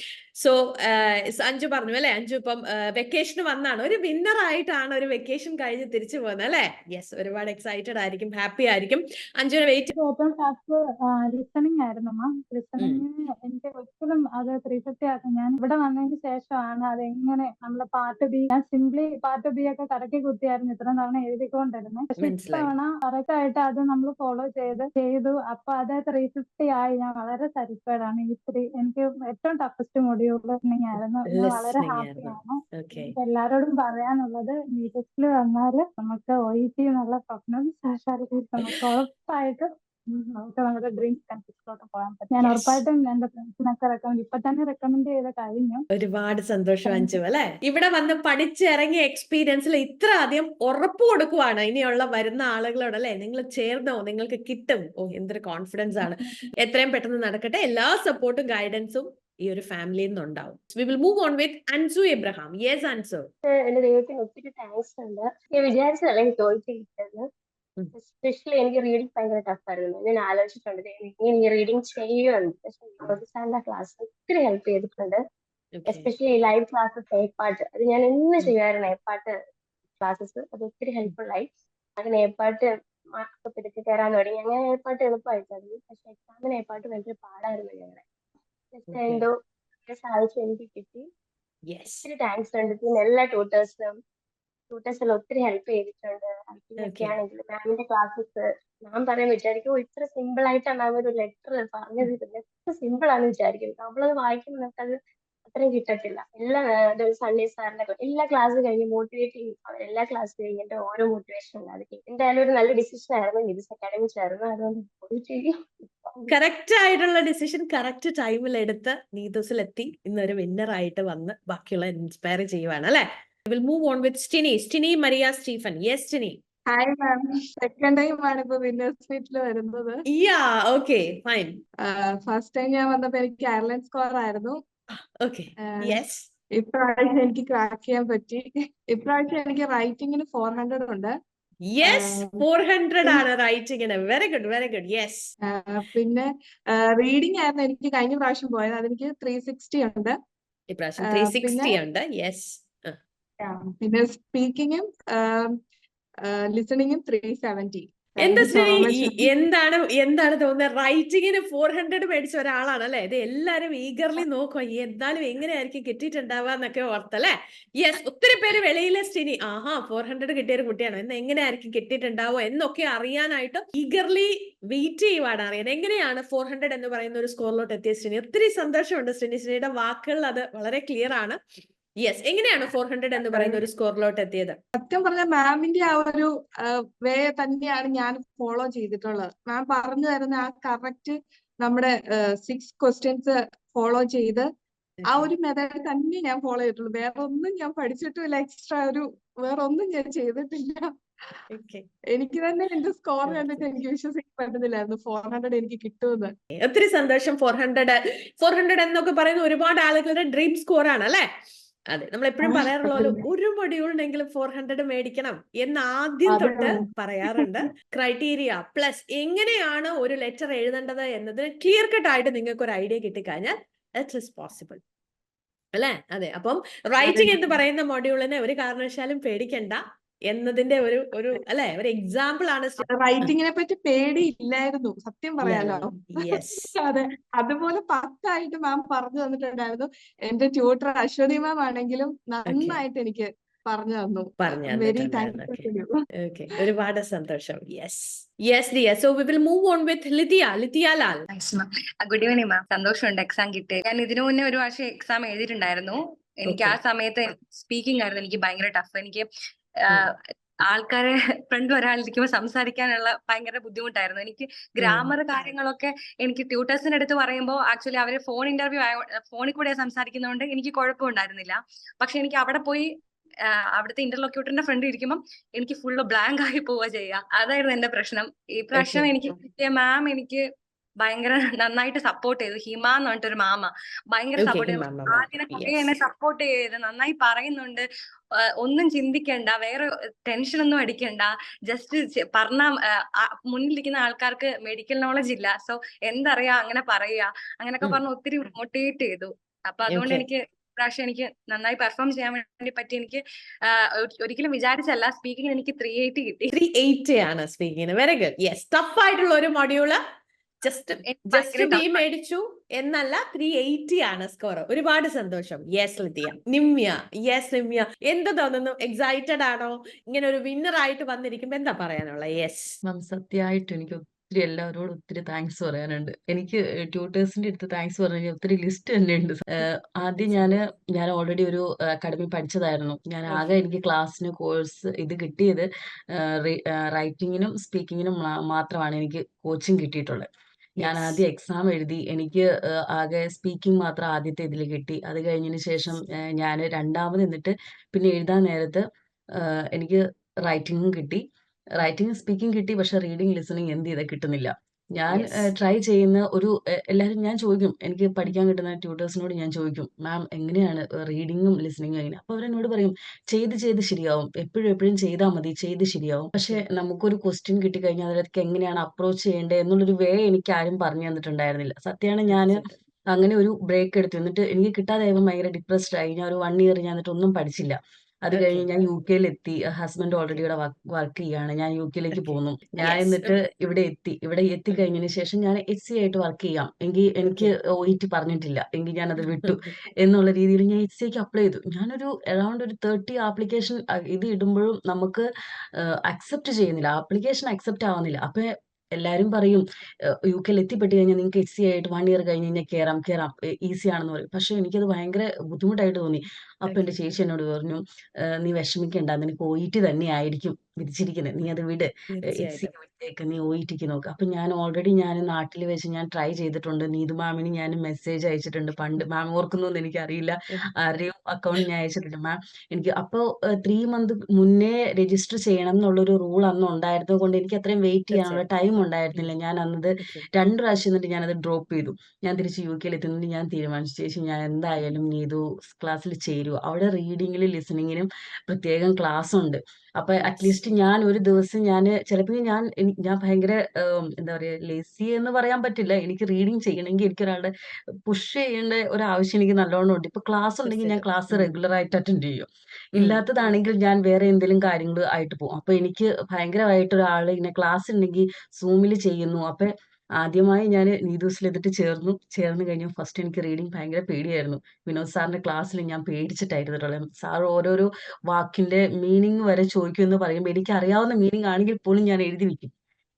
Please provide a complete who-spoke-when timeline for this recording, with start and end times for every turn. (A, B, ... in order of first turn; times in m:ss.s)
0:00.4-0:10.0 A
0:10.0-0:45.8 B
0:22.2-0:22.7 A
0:31.3-0:33.1 A
0:42.4-0:42.8 A
0:45.9-1:03.2 A
0:46.9-0:47.2 B
0:56.0-0:56.5 B
1:03.5-1:07.2 C
1:08.0-1:15.2 C
1:15.8-1:16.1 A
1:15.9-1:19.3 C
1:20.0-1:21.5 C
1:22.0-1:22.7 C
1:23.2-1:28.0 C
1:28.7-1:29.3 C
1:28.9-1:29.2 A
1:29.9-1:31.1 C
1:31.7-1:32.1 A
1:32.0-1:34.0 C
1:34.7-1:45.0 C
1:36.8-1:37.1 A
1:45.5-1:55.5 C
1:56.0-1:56.3 C
1:56.3-2:06.4 A
2:06.7-2:10.0 D
2:10.1-2:11.6 A
2:11.8-2:14.6 D
2:15.2-2:16.3 A
2:15.7-2:16.0 D
2:16.6-2:21.1 D
2:21.7-2:25.3 A
2:21.8-2:22.4 D
2:25.5-2:30.1 D
2:30.7-2:33.0 A
2:31.0-2:31.8 D
2:33.4-2:35.6 D
2:36.2-2:39.3 D
2:38.2-3:01.4 A
3:02.0-3:04.6 A
3:03.3-3:03.6 D
3:04.8-3:14.5 D
3:15.0-3:15.3 A
3:15.1-3:20.9 D
3:21.5-3:21.9 A
3:22.1-3:26.3 D
3:23.2-3:23.7 A
3:26.6-3:31.2 A
3:31.9-3:44.8 A
3:32.4-3:33.2 D
3:36.3-3:37.7 D
3:45.7-3:53.3 A
3:47.0-3:47.5 D
3:52.8-4:06.0 D
3:55.4-3:56.7 A
4:02.5-4:02.8 A
4:04.4-4:05.7 A
4:06.2-4:11.2 A
4:11.3-4:19.3 E
4:16.5-4:16.8 A
4:19.9-4:32.9 E
4:24.8-4:25.5 A
4:33.8-4:40.4 E
4:38.8-4:39.4 A
4:41.0-4:47.8 E
4:44.4-4:45.9 A
4:48.6-5:06.5 E
4:59.9-5:00.2 A
5:06.5-5:10.0 A
5:10.6-5:22.8 A
5:11.1-5:12.1 E
5:22.8-5:48.8 F
5:33.3-5:33.6 A
5:40.8-5:41.2 A
5:49.4-5:51.2 F
5:51.8-6:35.2 F
5:55.1-5:55.5 A
6:06.4-6:06.6 A
6:12.3-6:12.8 A
6:18.3-6:18.7 A
6:22.1-6:23.4 A
6:27.2-6:27.5 A
6:29.3-6:29.6 A
6:35.8-6:39.6 F
6:40.3-7:27.5 F
6:46.7-6:47.0 A
6:52.1-6:52.7 A
7:08.1-7:08.5 A
7:10.0-7:10.3 A
7:20.2-7:20.7 A
7:28.1-7:52.7 F
7:30.6-7:31.5 A
7:33.0-7:33.2 A